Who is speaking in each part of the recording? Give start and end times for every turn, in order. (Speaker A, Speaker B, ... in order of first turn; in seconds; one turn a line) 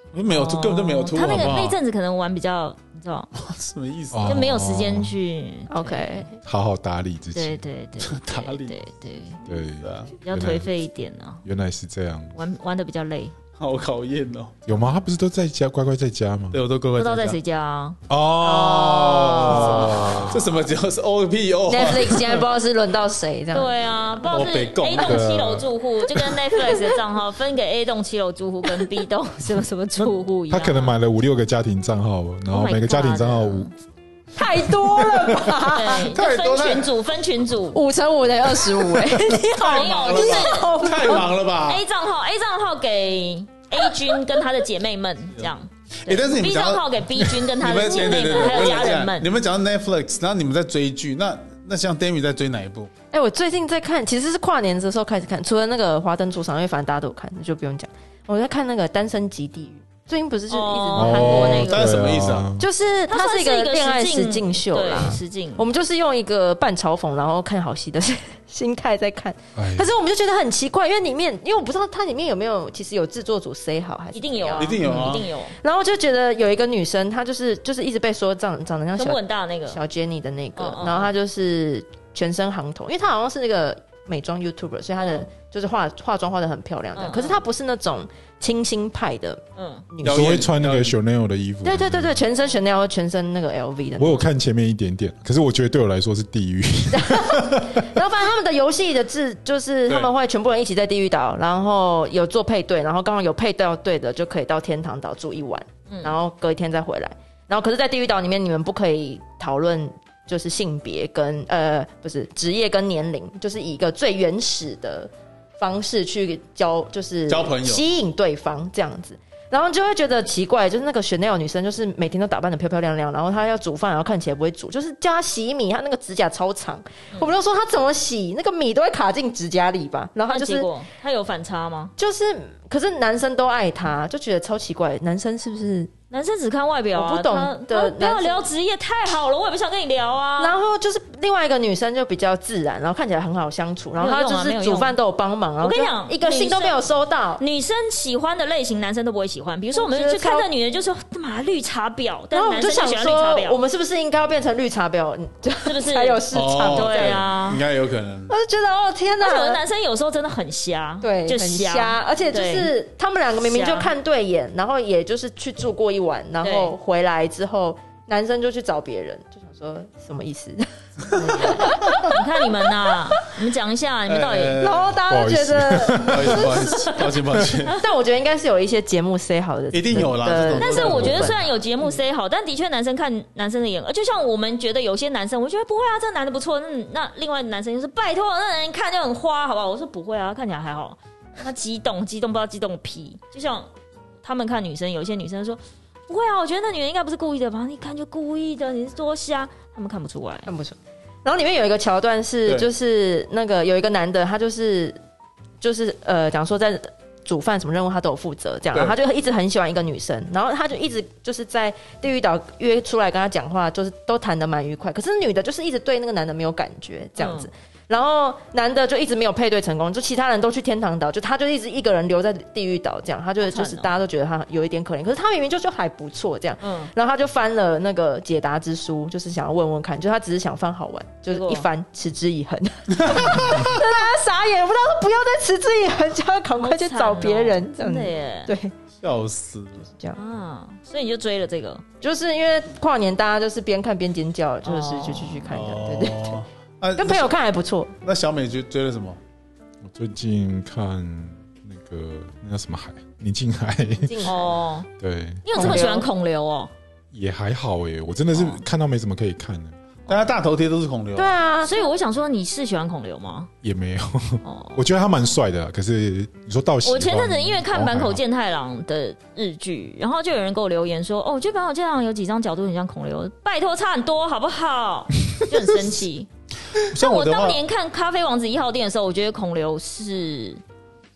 Speaker A: 0.1-1.8
Speaker B: 0.3-3.3
Speaker C: 1.2-1.6
Speaker A: 3.4-4.4
Speaker C: 4.1-5.2
Speaker B: 4.2-6.3
Speaker D: 5.7-6.4
Speaker C: 6.4-7.6
Speaker B: 7.3-9.4
Speaker A: 8.0-8.8
Speaker C: 9.4-10.7
Speaker A: 9.8-10.1
Speaker B: 10.2-11.4
Speaker C: 11.4-12.3
Speaker B: 12.3-13.3
Speaker A: 13.6-14.5
Speaker C: 14.7-16.6
Speaker A: 16.5-17.4
Speaker B: 16.9-18.0
Speaker C: 18.1-20.7
Speaker D: 18.4-20.2
Speaker A: 19.1-22.5
Speaker D: 21.7-23.8
Speaker B: 23.5-30.9
Speaker A: 24.2-25.2
Speaker C: 25.0-25.7
Speaker D: 26.4-26.9
Speaker C: 30.0-33.7
Speaker B: 32.5-33.7
Speaker D: 34.3-36.1
Speaker C: 34.7-35.6
Speaker B: 35.7-37.8
Speaker A: 35.8-36.9
Speaker D: 37.7-41.3
Speaker A: 38.9-41.8
Speaker B: 39.5-40.9
Speaker B: 41.6-49.3
Speaker D: 43.8-44.4
Speaker A: 46.0-52.9
Speaker D: 48.2-48.8
Speaker D: 53.1-61.9
Speaker B: 60.5-61.8
Speaker C: 60.9-62.7
Speaker A: 61.4-62.5
Speaker D: 62.6-90.4
Speaker B: 63.1-65.7
Speaker C: 69.5-69.9
Speaker B: 74.1-75.6
Speaker A: 74.6-75.3
Speaker B: 79.0-79.8
Speaker B: 80.5-81.1
Speaker B: 85.0-85.2
Speaker B: 86.9-87.4
Speaker B: 89.5-89.9
Speaker A: 90.0-90.9
Speaker C: 90.0-92.2
Speaker D: 91.6-94.3
Speaker C: 94.0-97.9
Speaker D: 96.9-130.7
Speaker B: 105.9-106.2
Speaker A: 117.3-117.8
Speaker B: 130.3-131.9
Speaker D: 132.0-135.9
Speaker B: 136.1-140.6
Speaker D: 136.9-138.5
Speaker D: 140.4-147.4
Speaker B: 144.0-145.0
Speaker B: 145.6-146.8
Speaker B: 147.4-153.6
Speaker D: 149.7-150.5
Speaker D: 152.3-157.2
Speaker B: 155.6-157.6
Speaker A: 156.3-158.3
Speaker D: 158.3-159.6
Speaker B: 159.2-162.7
Speaker D: 161.0-172.2
Speaker B: 163.4-163.9
Speaker B: 166.4-166.7
Speaker B: 171.1-174.7
Speaker A: 174.1-175.0
Speaker D: 174.6-182.0
Speaker C: 175.1-176.7
Speaker A: 175.9-177.8
Speaker A: 179.7-181.4
Speaker B: 180.6-193.7
Speaker B: 194.2-200.5
Speaker D: 200.4-205.0
Speaker D: 205.6-238.7
Speaker B: 217.2-217.5
Speaker B: 223.4-223.9
Speaker B: 226.6-226.9
Speaker B: 231.3-231.7
Speaker A: 233.0-233.7
Speaker B: 236.6-238.5
Speaker A: 239.0-239.9
Speaker D: 239.9-240.2
Speaker B: 240.1-241.8
Speaker D: 242.0-246.4
Speaker B: 244.6-245.5
Speaker A: 245.5-247.3
Speaker D: 246.9-247.9
Speaker A: 248.0-249.2
Speaker C: 249.8-254.3
Speaker D: 254.0-254.5
Speaker B: 254.2-254.9
Speaker C: 255.0-255.8
Speaker B: 255.4-256.7
Speaker D: 255.5-256.1
Speaker C: 257.1-259.7
Speaker B: 258.3-258.6
Speaker A: 260.1-261.4
Speaker D: 261.1-261.9
Speaker B: 261.6-263.5
Speaker C: 263.6-268.2
Speaker B: 264.4-264.9
Speaker B: 266.8-276.3
Speaker A: 276.7-277.6
Speaker B: 276.9-280.6